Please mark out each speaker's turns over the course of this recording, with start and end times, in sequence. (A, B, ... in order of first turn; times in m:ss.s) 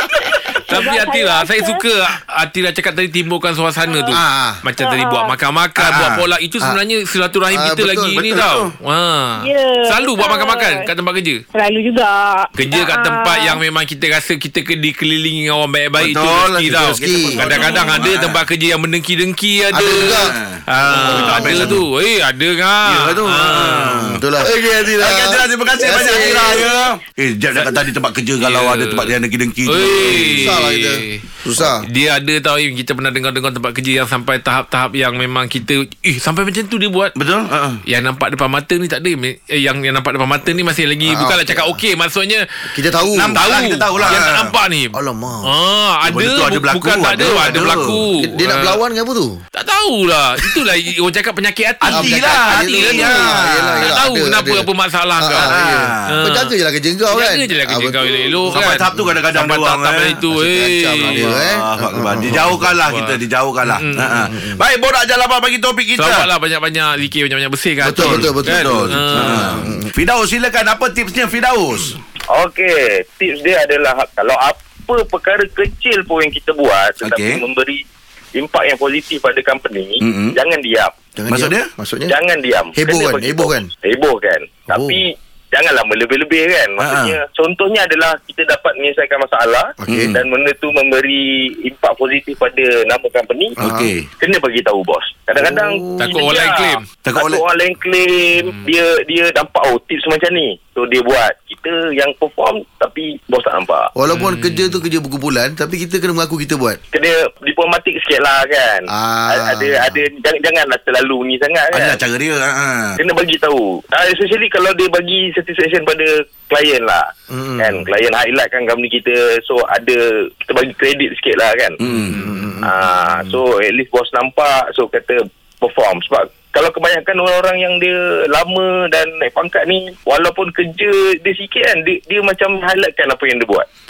0:00.4-0:01.9 A
0:00.7-0:11.4 B
0:03.8-0:04.1 A
0:04.1-0:04.6 C
0:04.8-0:05.3 A
0:05.8-0:06.2 D
0:07.5-0:08.2 C
0:08.2-0:08.7 D
0:09.4-0:10.9 A
0:11.5-0:13.6 A
0:12.6-0:24.2 B
0:16.0-0:18.4 D
0:17.0-0:17.7 C
0:17.5-0:18.0 A
0:19.7-0:20.4 C
0:20.2-0:21.8 D
0:20.9-0:21.8 C
0:22.8-0:24.2 D
0:24.2-0:26.7 C
0:24.8-0:30.6 D
0:27.6-0:27.9 B
0:28.4-0:29.1 B
0:29.7-0:37.2 B
0:30.1-0:31.8 C
0:37.2-0:37.8 D
0:37.9-0:42.4 B
0:41.1-0:41.8 C
0:42.7-0:43.4 C
0:43.1-0:44.5 D
0:43.4-0:45.0 B
0:44.0-0:44.2 C
0:44.9-0:45.5 C
0:45.5-0:48.8 B
0:46.1-0:48.0 D
0:47.4-0:49.4 C
0:49.6-0:53.3 B
0:51.8-0:54.0 D
0:51.9-0:54.7 C
0:53.8-0:55.5 B
0:55.2-0:59.1 C
0:55.4-0:56.1 D
0:56.1-0:56.5 B
0:57.1-1:01.4 B
0:58.5-1:00.2 D
1:00.3-1:02.7 C
1:01.0-1:06.3 D
1:02.3-1:04.3 B
1:04.3-1:04.6 C
1:06.0-1:09.6 B
1:07.8-1:12.0 D
1:07.9-1:09.9 C
1:12.3-1:17.8 E
1:17.0-1:17.4 D
1:18.4-1:20.9 E
1:20.0-1:20.4 D
1:21.2-1:22.1 C
1:21.3-1:21.7 D
1:22.1-1:33.6 E
1:22.8-1:23.7 C
1:24.7-1:25.0 C
1:26.8-1:27.2 D
1:29.8-1:30.2 C
1:29.9-1:30.2 D
1:33.6-1:34.1 D
1:33.6-1:33.9 C
1:34.2-1:43.9 E
1:35.4-1:36.1 C
1:36.0-1:36.8 B
1:37.0-1:37.4 D
1:38.4-1:38.6 B
1:44.0-1:46.8 C
1:44.1-1:44.8 B
1:46.9-1:52.0 E
1:48.9-1:50.0 C
1:51.7-1:53.0 D
1:53.0-2:01.8 E
1:57.3-1:57.9 C
2:01.8-2:02.2 D
2:01.9-2:03.4 C
2:02.6-2:13.7 E